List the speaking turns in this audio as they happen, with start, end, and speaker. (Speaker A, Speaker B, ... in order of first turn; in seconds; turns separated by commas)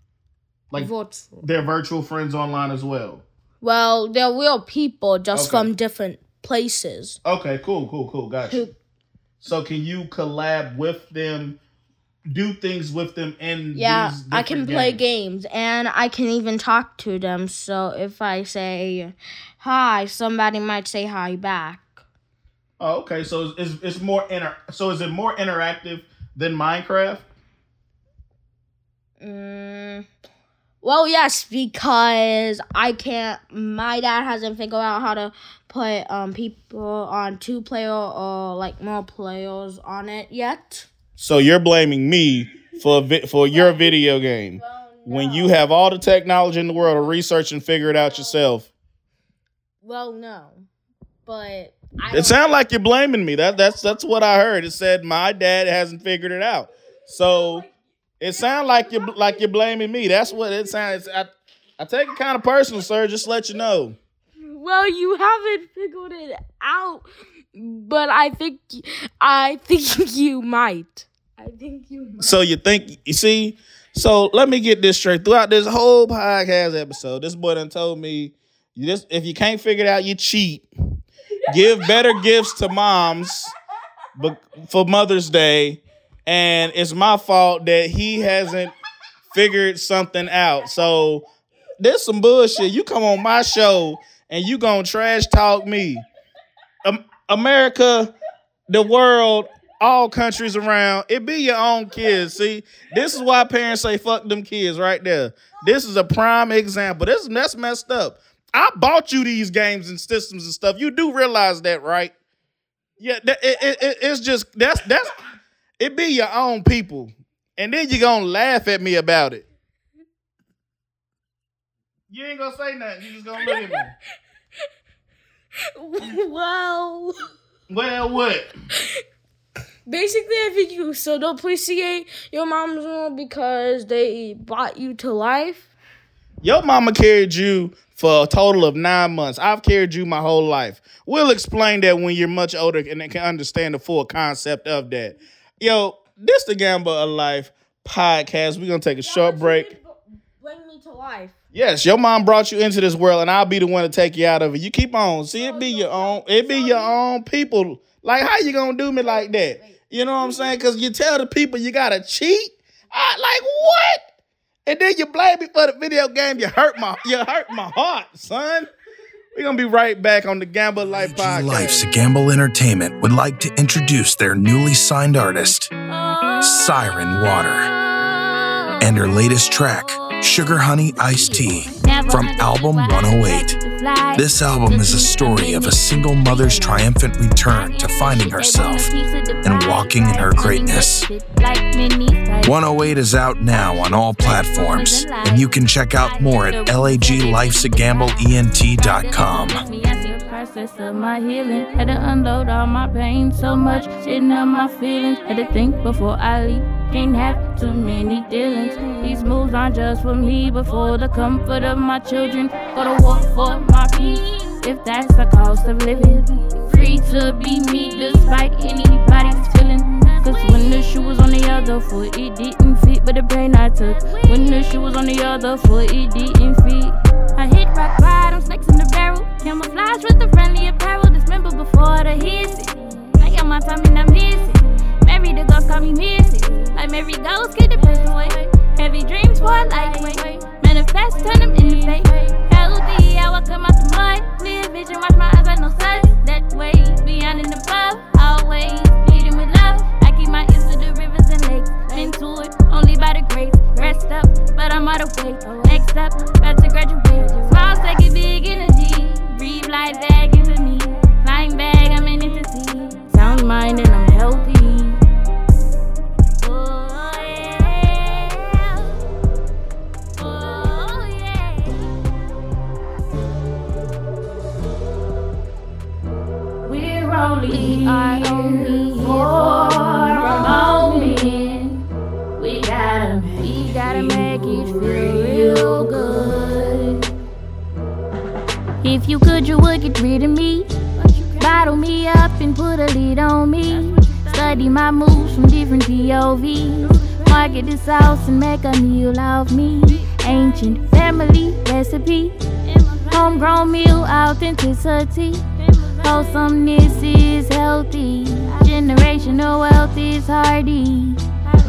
Speaker A: 0.7-1.5, Speaker B: 1.4-3.2, Speaker A: 3.6-7.2, Speaker B: 5.3-5.7, Speaker B: 7.2-8.6, Speaker A: 8.5-8.8, Speaker B: 9.4-11.6, Speaker B: 12.3-15.0, Speaker A: 13.7-22.0, Speaker B: 22.8-27.2, Speaker A: 29.2-30.1, Speaker A: 30.8-40.9, Speaker B: 41.2-48.7, Speaker A: 43.6-43.9, Speaker A: 44.5-45.6, Speaker A: 49.8-50.6, Speaker A: 51.2-52.4, Speaker B: 52.1-57.7, Speaker B: 58.2-64.0, Speaker A: 64.4-72.4, Speaker B: 72.2-80.7, Speaker B: 81.5-83.5, Speaker B: 84.2-88.7, Speaker B: 89.3-91.2, Speaker B: 91.8-96.0, Speaker B: 96.8-98.1, Speaker B: 98.7-112.1, Speaker B: 113.0-115.2, Speaker B: 115.8-119.5, Speaker B: 122.1-123.9, Speaker A: 125.7-127.2, Speaker B: 127.7-128.5, Speaker A: 129.9-135.7, Speaker B: 136.4-149.7, Speaker A: 149.0-151.4, Speaker B: 151.5-164.0, Speaker A: 155.3-156.9, Speaker A: 159.0-159.8, Speaker B: 164.7-168.7, Speaker B: 169.3-171.9, Speaker C: 171.1-175.7, Speaker D: 175.9-176.8, Speaker C: 176.4-177.7, Speaker D: 177.7-186.9, Speaker C: 178.8-183.6, Speaker C: 184.1-188.9, Speaker D: 187.4-192.6, Speaker C: 189.4-191.1, Speaker C: 192.4-199.6, Speaker D: 193.5-265.0, Speaker D: 266.4-268.9, Speaker D: 270.2-271.9, Speaker D: 276.6-281.8, Speaker D: 282.4-287.1, Speaker D: 288.8-311.2